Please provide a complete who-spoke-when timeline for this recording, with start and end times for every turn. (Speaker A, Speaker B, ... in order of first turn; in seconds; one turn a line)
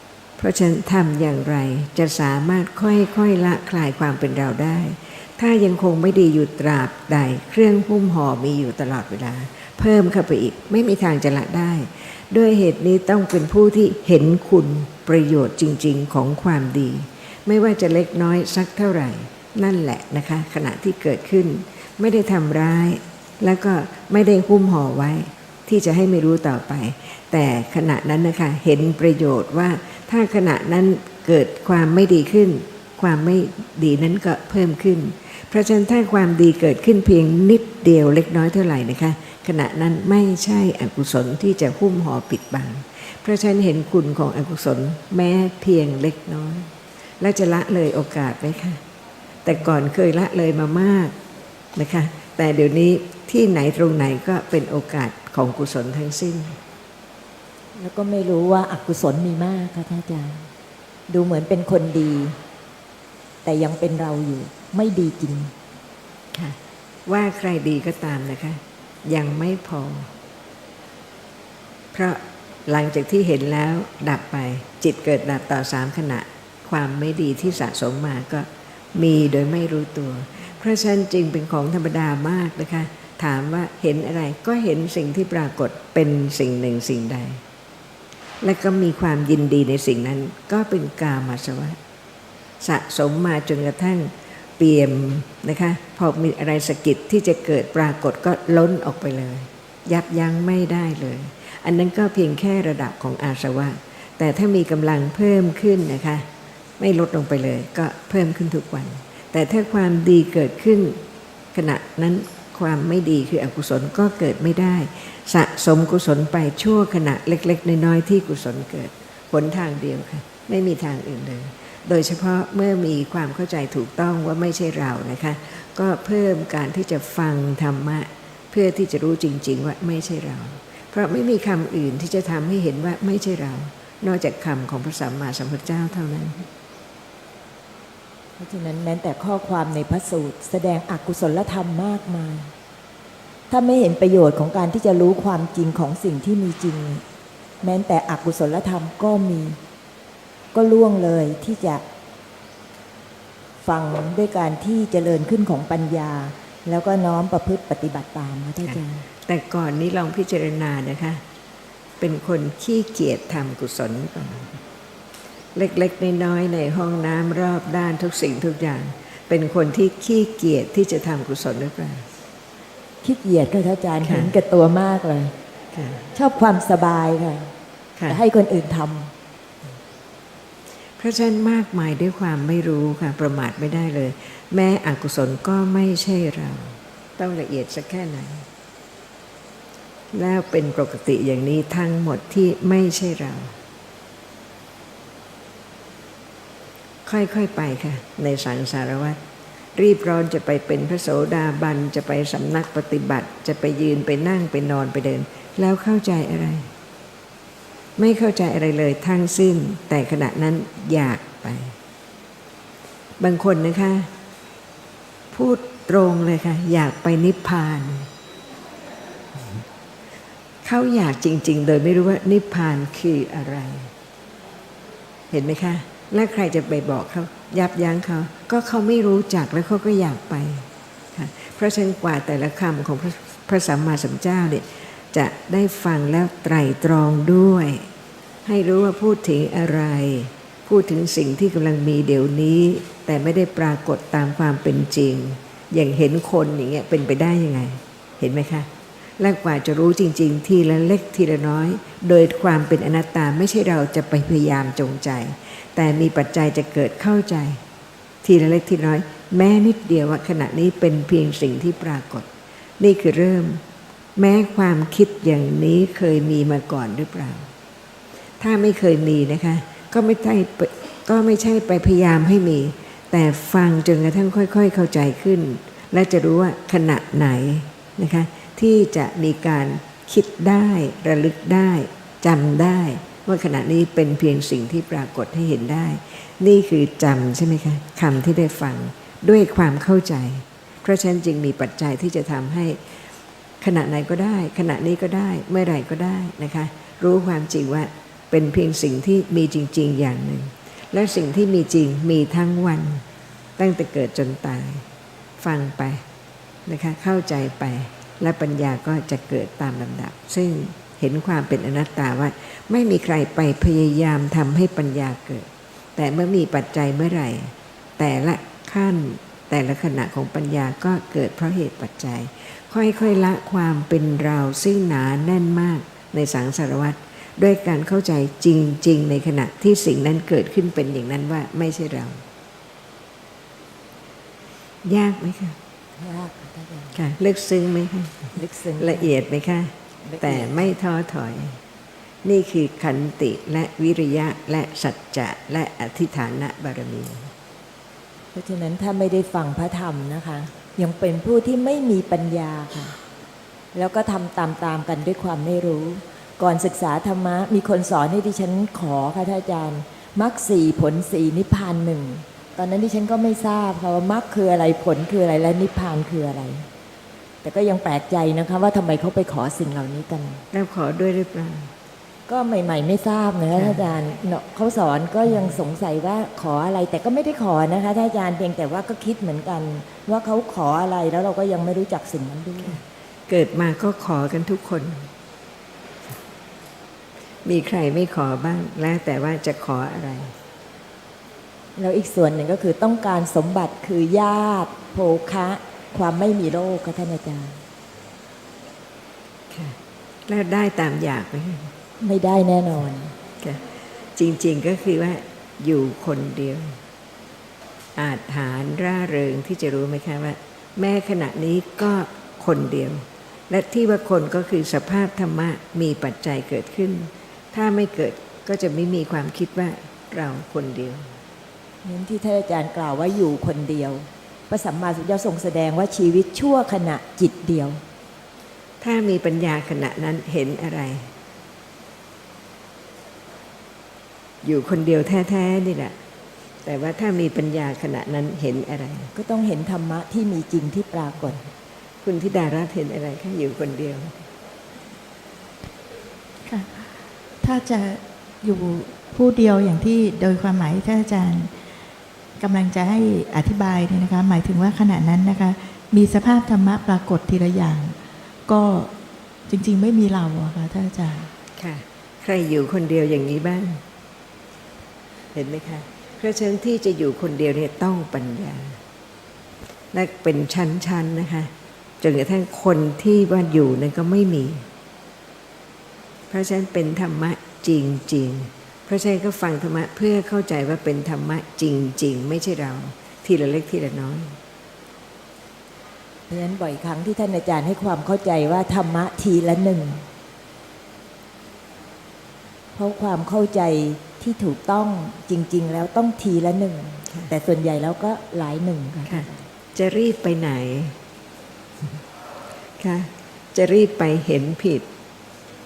Speaker A: 0.4-48.8
Speaker A: 49.4-51.1
Speaker A: 51.8-56.6
Speaker B: 57.8-60.5
Speaker B: 61.1-62.4
Speaker B: 63.4-65.5
Speaker A: 66.3-70.1
Speaker A: 71.9-87.4
Speaker A: 88.4-91.8
Speaker A: 92.6-106.2
Speaker A: 106.8-111.0
Speaker A: 111.5-136.4
Speaker B: 138.4-142.5
Speaker B: 143.5-147.0
Speaker B: 147.6-149.6
Speaker B: 150.5-151.8
Speaker B: 153.6-159.1
Speaker A: 158.7-161.2
Speaker A: 162.0-164.6
Speaker A: 165.5-172.1
Speaker B: 173.0-175.3
Speaker A: 174.0-174.3
Speaker A: 175.7-176.1
Speaker B: 176.1-177.5
Speaker B: 178.1-179.1
Speaker A: 181.0-188.4
Speaker A: 190.1-193.5
Speaker A: 197.1-199.2
Speaker A: 199.8-206.7
Speaker A: 208.0-211.8
Speaker A: 213.2-214.1
Speaker A: 215.3-218.1
Speaker A: 220.6-223.9
Speaker A: 225.3-237.9
Speaker A: 238.4-257.6
Speaker A: 258.2-262.3
Speaker A: 262.8-263.6
Speaker A: 264.1-267.5
Speaker A: 268.4-293.0
Speaker A: 293.6-303.0
Speaker A: 303.6-304.9
Speaker A: 305.4-306.0
Speaker A: 306.7-332.2
Speaker A: 334.8-335.6
Speaker B: 336.0-337.0
Speaker A: 336.9-341.6
Speaker B: 338.4-339.1
Speaker B: 340.0-340.7
Speaker A: 342.2-347.3
Speaker B: 348.3-353.0
Speaker B: 353.7-366.7
Speaker B: 367.4-370.4
Speaker A: 370.5-371.7
Speaker B: 372.3-382.8
Speaker A: 373.5-373.8
Speaker A: 383.3-385.1
Speaker A: 387.4-390.3
Speaker B: 391.8-397.6
Speaker A: 399.5-401.7
Speaker B: 402.0-403.1
Speaker A: 403.4-406.8
Speaker A: 407.9-421.1
Speaker B: 421.8-427.8
Speaker A: 428.8-431.1
Speaker A: 434.4-435.9
Speaker A: 436.6-439.1
Speaker B: 439.1-441.4
Speaker A: 442.0-444.2
Speaker C: 446.4-451.5
Speaker C: 452.4-457.9
Speaker C: 458.5-458.9
Speaker C: 459.5-461.3
Speaker A: 461.6-463.8
Speaker A: 465.3-468.8
Speaker A: 469.9-474.6
Speaker A: 476.3-484.4
Speaker B: 486.3-490.1
Speaker B: 492.8-499.4
Speaker A: 499.1-501.0
Speaker A: 502.8-504.9